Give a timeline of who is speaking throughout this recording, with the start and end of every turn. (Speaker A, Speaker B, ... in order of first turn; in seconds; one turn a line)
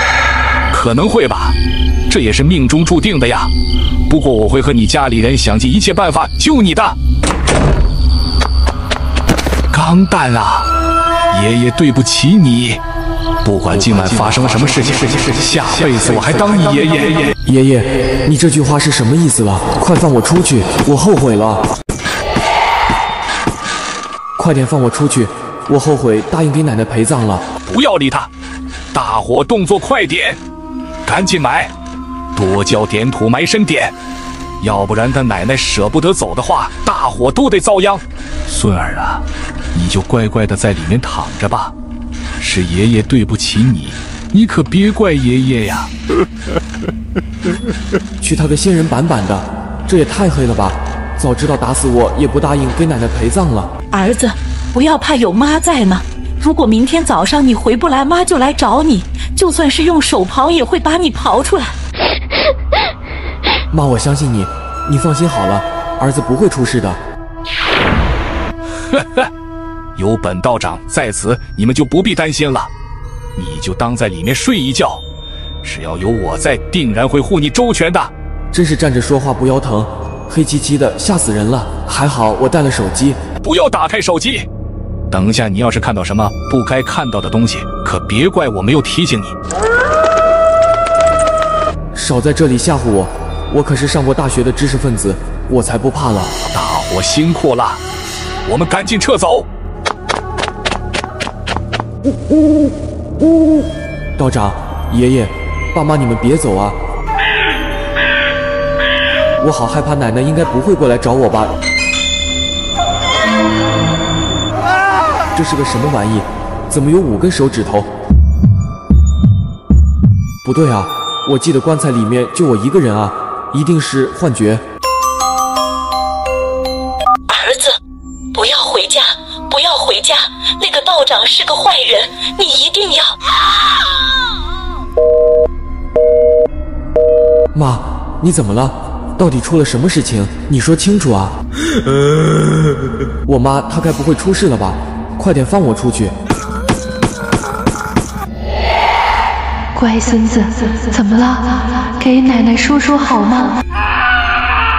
Speaker A: 0.7-1.6
Speaker A: 2.1-3.5
Speaker A: 4.1-7.0
Speaker A: 9.7-10.7
Speaker A: 11.3-12.8
Speaker A: 13.4-17.3
Speaker B: 17.4-21.7
Speaker B: 24.4-27.4
Speaker A: 27.7-28.3
Speaker A: 28.9-30.4
Speaker A: 31.1-31.7
Speaker A: 32.3-33.9
Speaker A: 34.6-41.7
Speaker A: 42.4-45.9
Speaker B: 48.2-53.7
Speaker C: 53.9-61.7
Speaker B: 63.7-67.0
Speaker A: 68.9-69.3
Speaker A: 70.0-72.7
Speaker A: 73.3-75.0
Speaker A: 75.6-78.1
Speaker B: 78.5-83.2
Speaker A: 83.4-84.5
Speaker A: 85.1-89.3
Speaker B: 91.9-96.3
Speaker A: 96.5-97.8
Speaker A: 98.5-99.5
Speaker B: 104.2-106.8
Speaker B: 109.4-111.5
Speaker B: 115.3-117.9
Speaker B: 120.4-124.6
Speaker C: 127.3-127.8
Speaker C: 128.3-133.2
Speaker B: 137.5-141.4
Speaker B: 143.2-146.1
Speaker D: 149.7-153.6